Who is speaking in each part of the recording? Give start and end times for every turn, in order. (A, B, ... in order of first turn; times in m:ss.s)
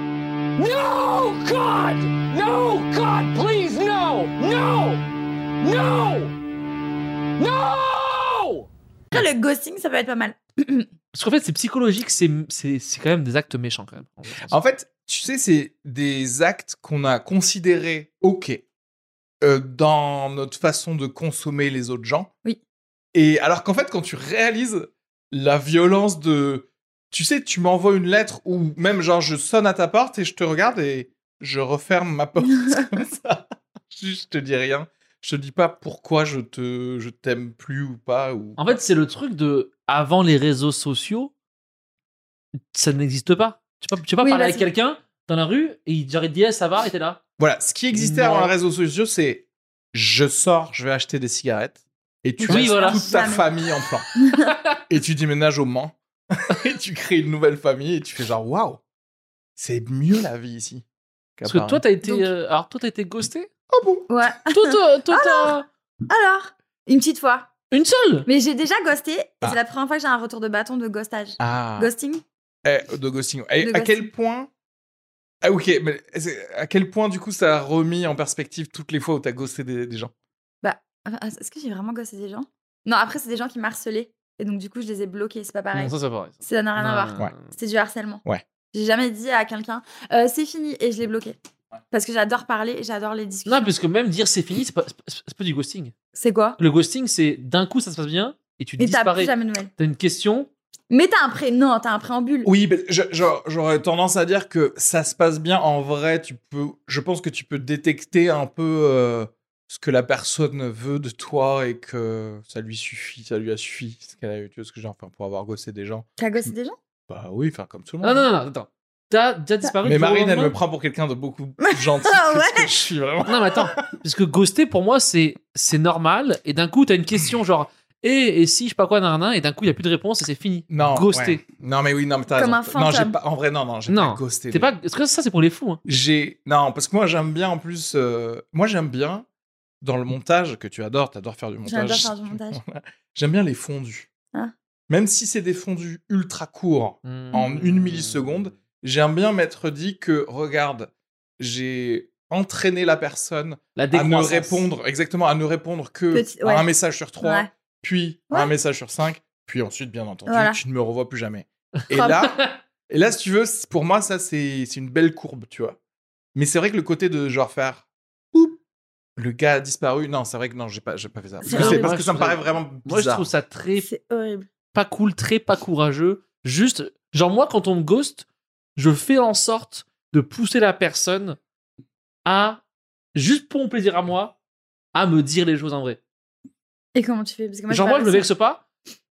0:00.6-0:05.0 A
0:05.6-0:06.3 A
0:07.4-0:08.6 A
0:09.1-0:10.9 B
0:11.1-0:14.6 C
0:14.5-0:18.6 D
0:19.4-0:22.3 D
0:23.1-0:38.7 D
0:38.6-0:41.3 C
0:42.7-0:47.2 C
0:44.2-0:44.6 B
0:47.4-0:54.1 D
0:47.9-0:48.5 C
0:52.4-0:53.5 B
0:52.4-0:53.1 C
0:54.2-0:54.5 B
0:54.9-0:58.8 D
0:59.6-1:00.8 D
1:01.4-1:01.8 D
1:01.4-1:03.5 C
1:03.7-1:04.1 D
1:04.1-1:05.6 B
1:04.5-1:05.7 C
1:06.1-1:07.5 B
1:07.7-1:08.3 C
1:08.2-1:12.2 B
1:11.4-1:11.9 D
1:12.6-1:14.5 D
1:13.6-1:14.1 B
1:15.4-1:20.1 D
1:20.6-1:31.4 B
1:25.7-1:27.5 C
1:31.9-1:33.7 B
1:33.4-1:35.9 C
1:36.1-1:36.6 B
1:36.6-1:40.5 C
1:38.8-1:39.7 B
1:40.9-1:42.5 B
1:42.4-1:56.5 D
1:56.2-1:56.8 B
1:57.1-1:58.3 D
1:58.0-2:00.5 C
1:59.8-2:03.5 D
2:01.6-2:02.8 B
2:03.2-2:11.4 C
2:10.7-2:14.7 D
2:12.4-2:13.2 B
2:13.9-2:15.8 C
2:15.8-2:19.2 D
2:19.8-2:24.1 D
2:21.6-2:22.6 B
2:24.9-2:45.8 D
2:27.0-2:28.3 C
2:33.8-2:34.7 C
2:36.1-2:36.7 B
2:37.2-2:37.5 B
2:40.3-2:40.6 B
2:41.9-2:42.2 B
2:42.1-2:42.4 C
2:46.3-2:48.6 D
2:49.2-2:53.3 D
2:51.4-2:51.9 B
2:51.5-2:53.9 C
2:53.8-2:54.5 B
2:54.7-3:01.4 C
3:02.2-3:02.6 C
3:03.1-3:04.3 C
3:04.9-3:06.0 C
3:06.9-3:08.3 B
3:07.7-3:08.6 C